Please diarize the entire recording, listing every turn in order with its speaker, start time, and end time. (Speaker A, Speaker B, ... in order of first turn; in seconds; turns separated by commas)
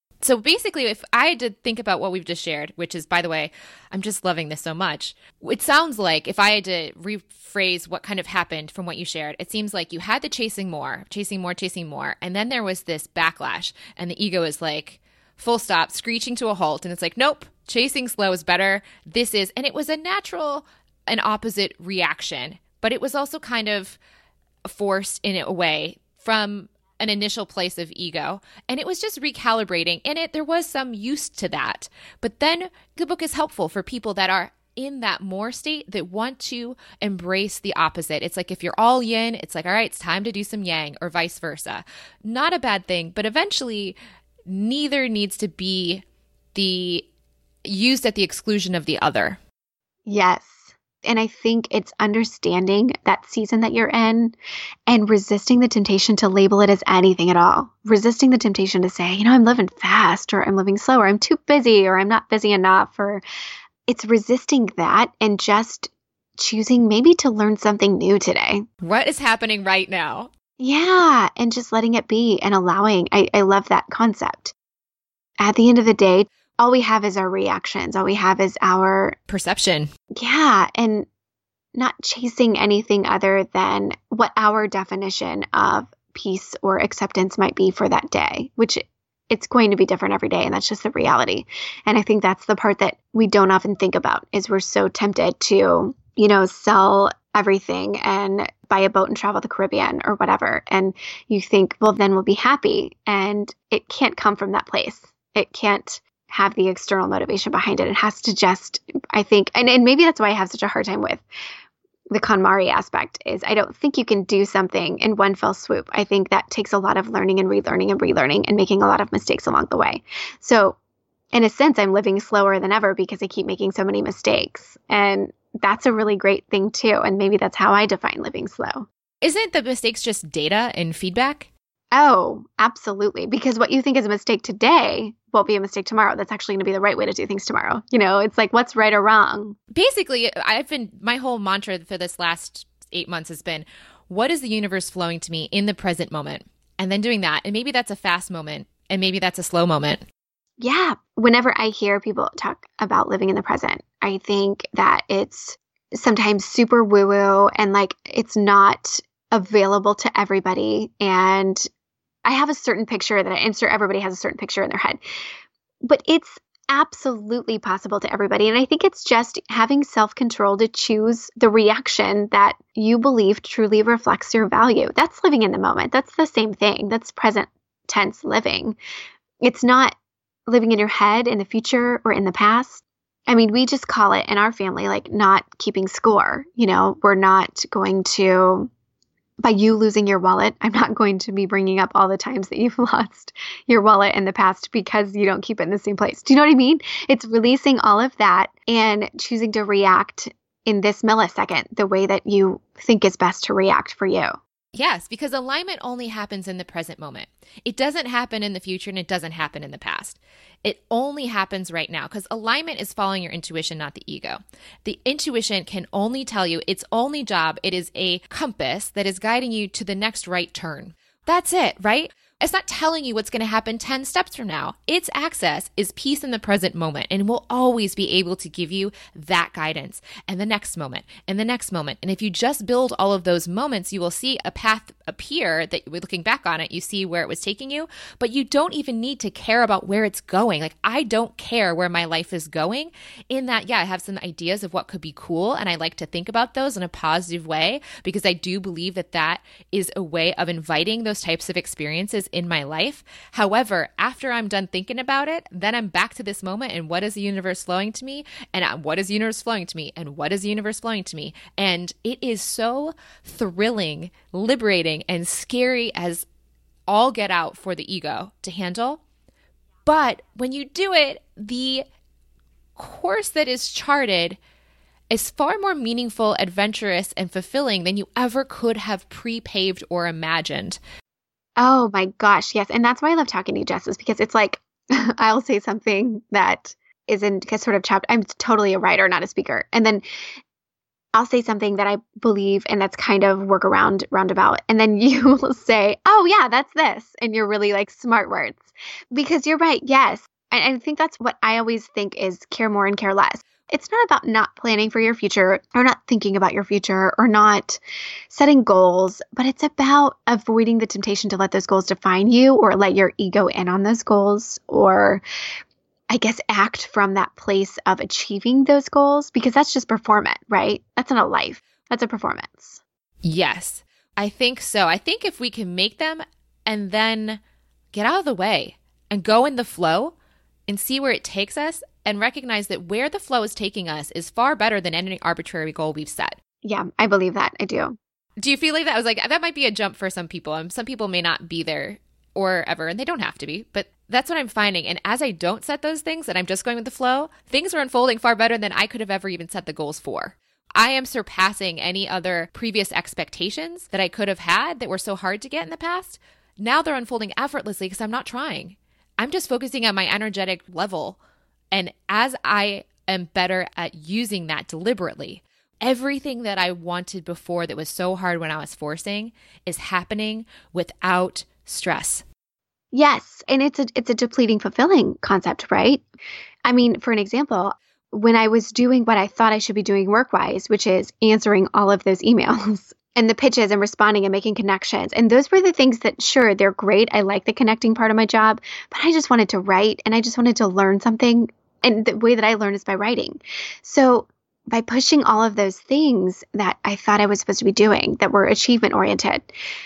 Speaker A: 0.2-24.0, Speaker A: 24.6-46.0, Speaker A: 46.5-47.1, Speaker A: 47.6-49.4, Speaker B: 50.1-54.4, Speaker B: 54.9-63.2, Speaker B: 63.9-68.7, Speaker A: 68.8-70.3, Speaker B: 70.6-74.5, Speaker B: 75.4-79.2, Speaker A: 79.3-79.9, Speaker B: 80.1-81.1, Speaker B: 81.7-111.2, Speaker B: 112.1-120.8, Speaker B: 121.3-128.9, Speaker A: 129.2-131.5, Speaker B: 131.9-139.6, Speaker A: 139.7-150.0, Speaker B: 150.6-161.7, Speaker B: 162.2-165.0, Speaker B: 165.8-178.8, Speaker B: 179.4-179.9, Speaker B: 180.5-188.7, Speaker B: 189.4-204.4, Speaker A: 204.7-266.3, Speaker A: 266.9-269.0, Speaker A: 269.9-271.9, Speaker A: 272.8-274.4, Speaker A: 275.1-280.8, Speaker B: 281.6-290.0, Speaker B: 291.1-315.2, Speaker B: 316.1-322.8, Speaker A: 323.2-327.4, Speaker A: 327.9-330.1, Speaker A: 330.7-336.4, Speaker B: 336.6-338.0, Speaker A: 338.4-361.2, Speaker A: 361.7-372.2, Speaker B: 372.9-376.0, Speaker B: 376.6-399.5